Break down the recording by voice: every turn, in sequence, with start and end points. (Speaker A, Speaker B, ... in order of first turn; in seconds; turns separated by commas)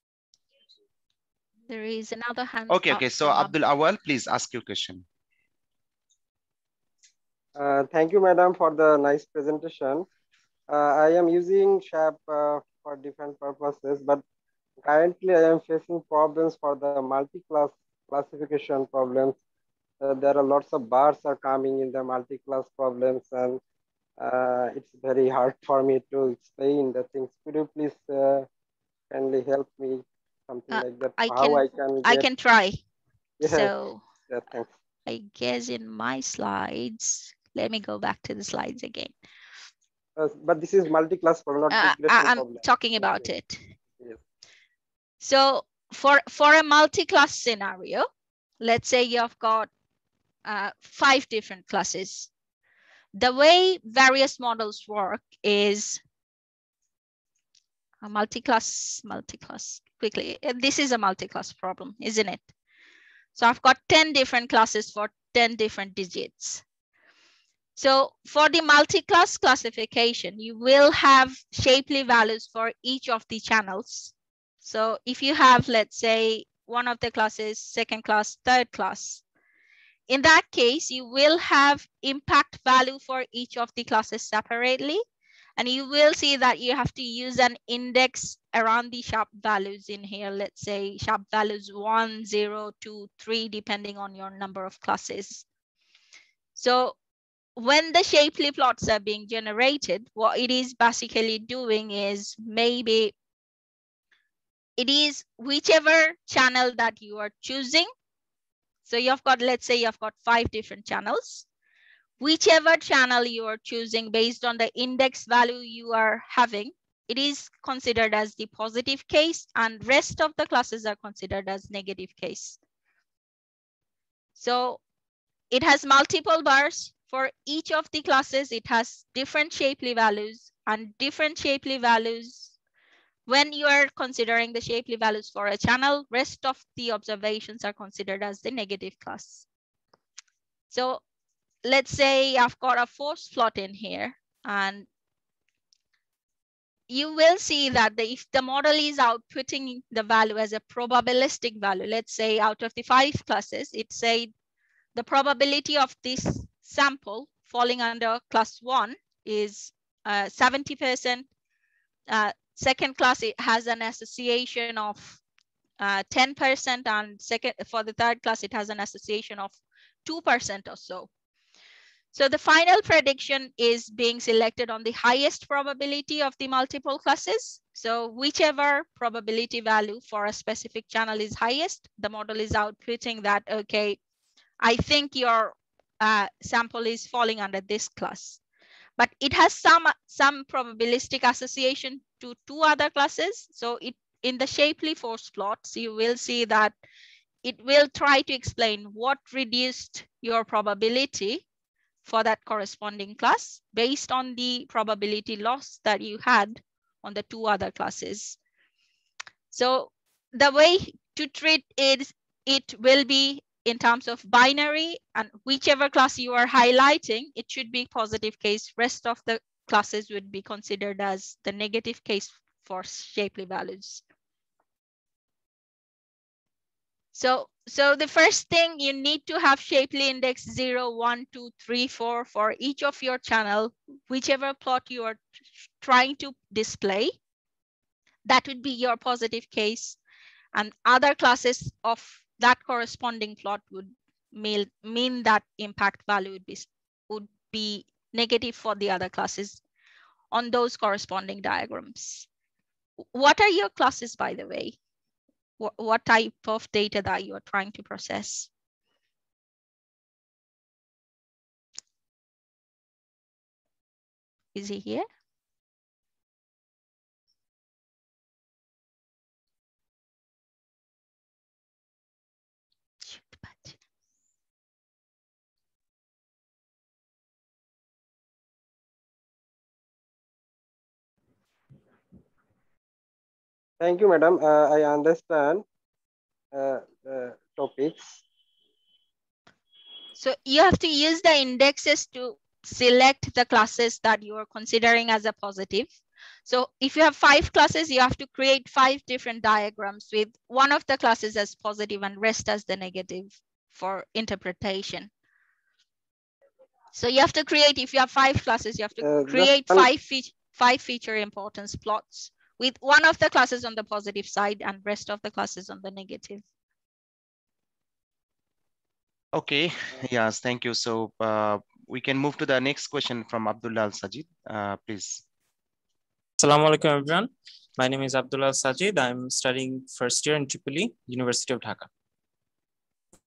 Speaker A: 1.7-3.5, Speaker B: 2.7-5.0, Speaker C: 7.5-10.1, Speaker C: 10.7-14.2, Speaker C: 14.8-19.4, Speaker C: 20.0-23.6, Speaker C: 24.2-28.5, Speaker C: 29.1-32.2, Speaker A: 30.7-32.8, Speaker C: 33.4-33.7, Speaker A: 33.4-34.0, Speaker C: 34.3-34.7, Speaker A: 35.0-39.1, Speaker C: 40.2-43.3, Speaker A: 41.7-43.6, Speaker A: 45.2-48.0, Speaker A: 48.6-49.7, Speaker A: 50.4-52.3, Speaker A: 53.1-56.0, Speaker A: 58.0-62.4, Speaker A: 63.4-66.6, Speaker A: 67.8-79.2, Speaker A: 80.1-85.0, Speaker A: 85.6-95.4, Speaker A: 96.5-97.0, Speaker A: 97.5-103.1, Speaker A: 104.8-107.9, Speaker A: 108.8-111.4, Speaker A: 112.2-122.6, Speaker A: 124.4-124.8, Speaker A: 125.5-132.5, Speaker A: 133.3-139.4, Speaker A: 140.7-141.0, Speaker A: 141.6-144.9, Speaker A: 146.9-154.3, Speaker A: 154.9-161.2, Speaker A: 162.1-165.2, Speaker A: 165.8-171.1, Speaker A: 172.1-184.0, Speaker A: 184.6-188.4, Speaker A: 189.0-196.7, Speaker A: 197.4-201.4, Speaker A: 202.0-208.4, Speaker A: 209.5-224.0, Speaker A: 227.1-237.2, Speaker A: 238.2-240.0, Speaker A: 240.5-249.6, Speaker A: 250.3-252.2, Speaker A: 253.1-254.8, Speaker A: 255.6-258.5, Speaker A: 264.5-265.0, Speaker A: 273.0-273.8, Speaker C: 283.8-285.6, Speaker C: 286.5-288.2, Speaker A: 290.2-295.9, Speaker A: 296.4-305.1, Speaker A: 306.9-316.4, Speaker C: 309.0-309.9, Speaker B: 319.3-325.2, Speaker D: 326.4-331.9